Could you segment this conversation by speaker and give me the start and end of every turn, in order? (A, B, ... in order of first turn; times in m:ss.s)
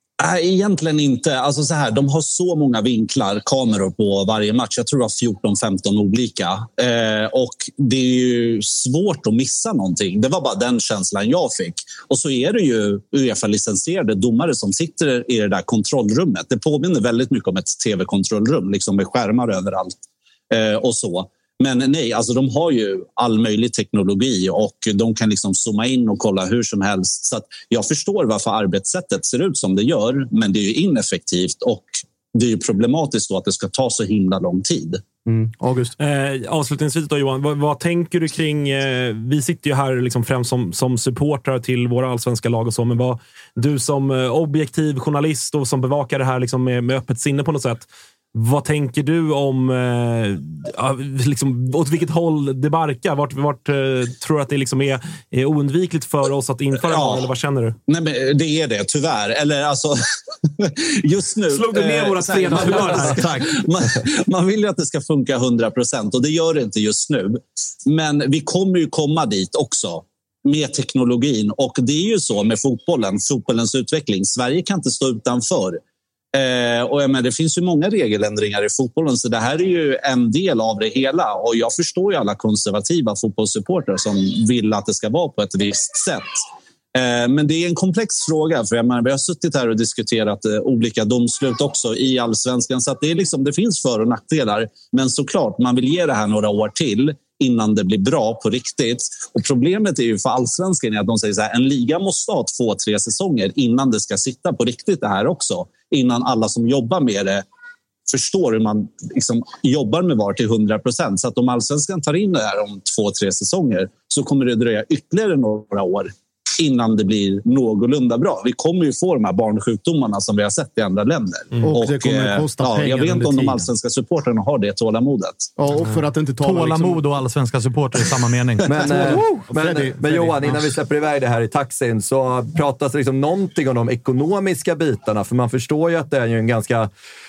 0:00.2-0:20.0 A
0:20.5-0:35.0 A
0:35.3-0:36.0 B
0:36.0-0:57.8 C
0:56.9-0:57.3 A
0:57.9-1:00.0 A
1:00.6-1:15.8 A
1:01.5-1:03.4 C
1:02.7-1:03.5 D
1:16.3-1:26.4 A
1:27.0-1:47.4 A
1:48.1-2:05.5 A
2:01.6-2:03.7 B
2:05.6-2:07.1 B
2:06.4-2:08.7 D
2:08.6-2:16.9 E
2:08.7-2:10.8 B